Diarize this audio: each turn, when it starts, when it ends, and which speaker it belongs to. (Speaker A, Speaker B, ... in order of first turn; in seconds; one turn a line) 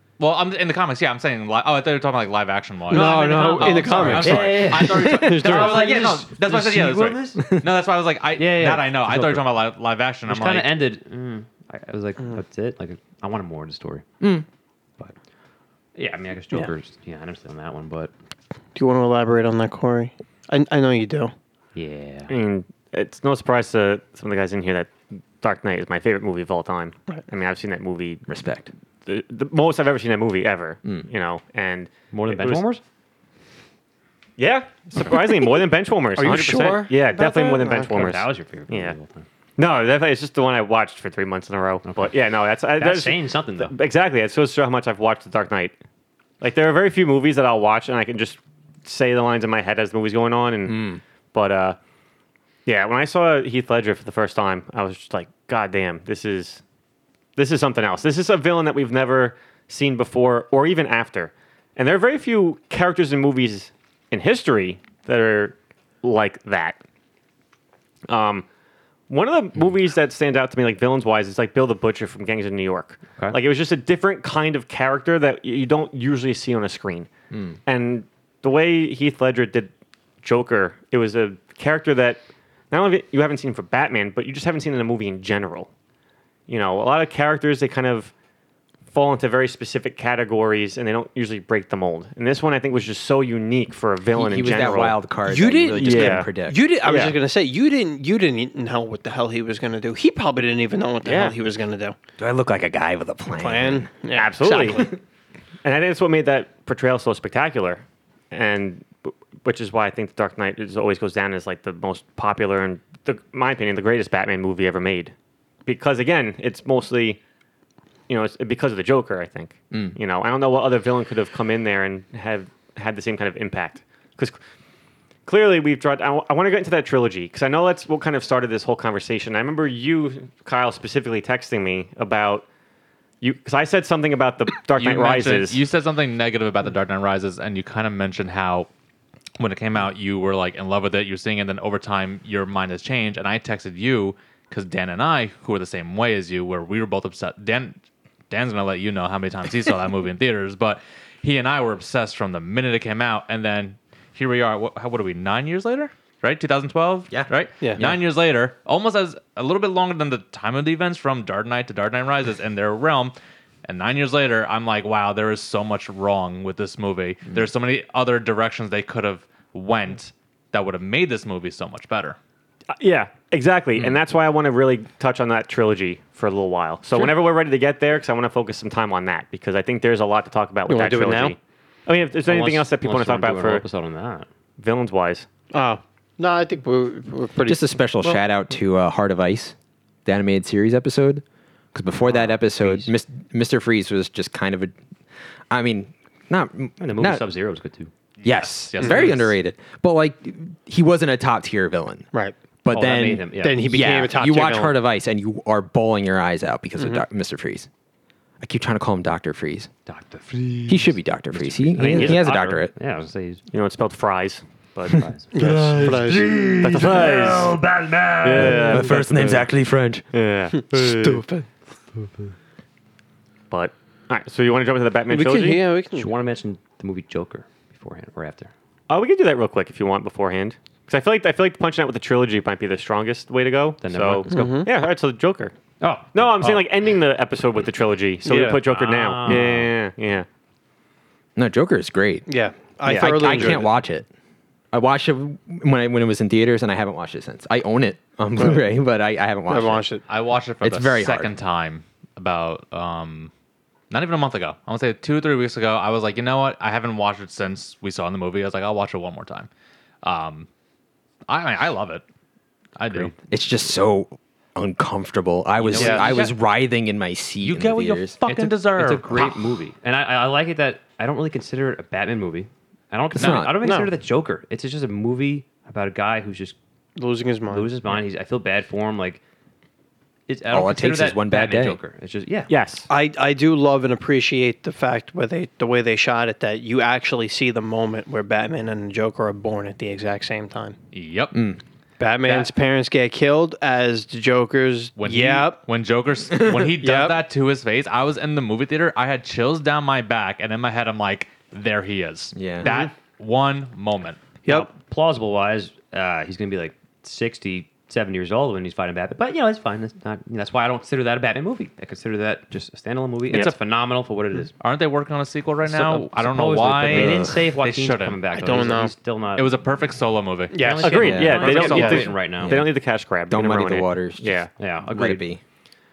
Speaker A: 0.2-10.8
Speaker B: 2.9-4.6
Speaker C: 2.9-5.4
Speaker D: 4.2-7.5
Speaker B: 5.2-5.8
Speaker C: 7.4-7.7
Speaker D: 8.4-9.4
Speaker D: 10.3-14.1
Speaker C: 14.2-14.4
Speaker D: 15.9-18.1
Speaker B: 18.7-21.3
Speaker D: 21.7-22.3
Speaker E: 22.3-28.2
Speaker C: 28.3-28.7
Speaker E: 29.1-32.7
Speaker D: 32.1-32.8
Speaker E: 34.4-38.9
Speaker B: 36.1-38.0
Speaker D: 37.9-39.2
Speaker E: 39.6-45.8
Speaker D: 41.8-42.1
Speaker D: 42.7-43.7
Speaker E: 46.4-51.8
Speaker C: 50.7-51.0
Speaker E: 52.6-56.6
Speaker E: 57.4-66.8
Speaker E: 68.1-68.5
Speaker E: 69.1-77.1
Speaker E: 77.7-79.7
Speaker E: 80.2-85.7
Speaker E: 86.5-88.1
Speaker E: 88.9-95.0
Speaker C: 94.1-96.6
Speaker B: 95.2-102.0
Speaker E: 95.8-97.2
Speaker E: 101.0-101.4
Speaker C: 102.2-103.9
Speaker B: 103.4-105.0
Speaker E: 104.1-104.9
Speaker E: 105.6-115.1
Speaker E: 115.7-117.2
Speaker E: 118.1-124.4
Speaker E: 125.2-132.4
Speaker E: 133.2-135.6
Speaker A: 134.7-138.7
Speaker A: 139.4-147.8
Speaker A: 148.3-163.1
Speaker C: 157.1-157.9
Speaker A: 163.6-172.2
Speaker E: 172.8-183.6
Speaker B: 180.7-181.3
Speaker D: 182.2-184.3
Speaker E: 184.6-185.3
Speaker B: 185.5-188.2
Speaker C: 187.4-189.5
Speaker C: 190.1-191.2
Speaker C: 191.7-194.7
Speaker D: 192.0-192.9
Speaker C: 195.5-197.2
Speaker D: 196.8-197.9
Speaker A: 198.2-199.3
Speaker C: 198.2-202.1
Speaker B: 198.8-199.1
Speaker C: 202.6-207.7
Speaker D: 202.7-203.8
Speaker B: 203.4-204.7
Speaker B: 206.8-207.0
Speaker C: 208.4-209.7
Speaker D: 209.9-213.4
Speaker C: 210.7-212.7
Speaker E: 211.9-212.2
Speaker E: 213.5-215.0
Speaker C: 214.9-217.6
Speaker D: 214.9-215.3
Speaker B: 215.3-216.3
Speaker E: 216.6-217.6
Speaker D: 216.8-218.7
Speaker C: 218.2-220.0
Speaker E: 218.2-219.1
Speaker B: 218.3-219.4
Speaker E: 220.1-221.2
Speaker C: 220.7-221.2
Speaker B: 221.0-221.4
Speaker E: 223.5-225.6
Speaker B: 225.1-226.1
Speaker D: 225.9-228.5
Speaker E: 228.9-235.5
Speaker D: 233.8-234.7
Speaker B: 234.3-234.7
Speaker D: 235.8-236.7
Speaker E: 236.1-240.2
Speaker B: 238.2-238.6
Speaker D: 238.6-239.7
Speaker C: 241.3-242.3
Speaker B: 242.3-243.7
Speaker E: 242.8-243.6
Speaker C: 242.9-244.1
Speaker C: 244.7-249.8
Speaker B: 249.5-250.0
Speaker A: 250.1-253.3
Speaker C: 250.6-251.3
Speaker A: 253.9-259.5
Speaker A: 260.0-260.5
Speaker A: 261.3-262.0
Speaker A: 262.8-263.1
Speaker D: 262.9-263.2
Speaker C: 263.3-268.2
Speaker D: 265.6-266.3
Speaker B: 265.8-266.1
Speaker A: 267.4-269.3
Speaker D: 268.2-276.6
Speaker C: 273.1-273.7
Speaker B: 273.6-273.9
Speaker B: 276.9-277.7
Speaker D: 277.5-279.2
Speaker D: 280.3-282.5
Speaker C: 280.5-281.8
Speaker E: 282.5-282.9
Speaker B: 282.9-290.8
Speaker A: 290.9-291.4
Speaker C: 291.3-291.6
Speaker B: 292.0-295.6
Speaker A: 292.2-292.5
Speaker A: 295.0-304.2
Speaker B: 296.8-297.2
Speaker C: 302.3-302.7
Speaker D: 304.4-314.5
Speaker A: 313.3-313.6
Speaker A: 314.6-318.2
Speaker D: 315.7-319.6
Speaker C: 316.9-317.5
Speaker B: 318.3-318.9
Speaker A: 319.3-320.8
Speaker B: 320.5-322.1
Speaker D: 320.5-322.6
Speaker E: 320.8-324.5
Speaker C: 321.0-321.4
Speaker A: 321.3-322.1
Speaker C: 322.2-322.7
Speaker C: 323.3-325.4
Speaker D: 324.6-325.3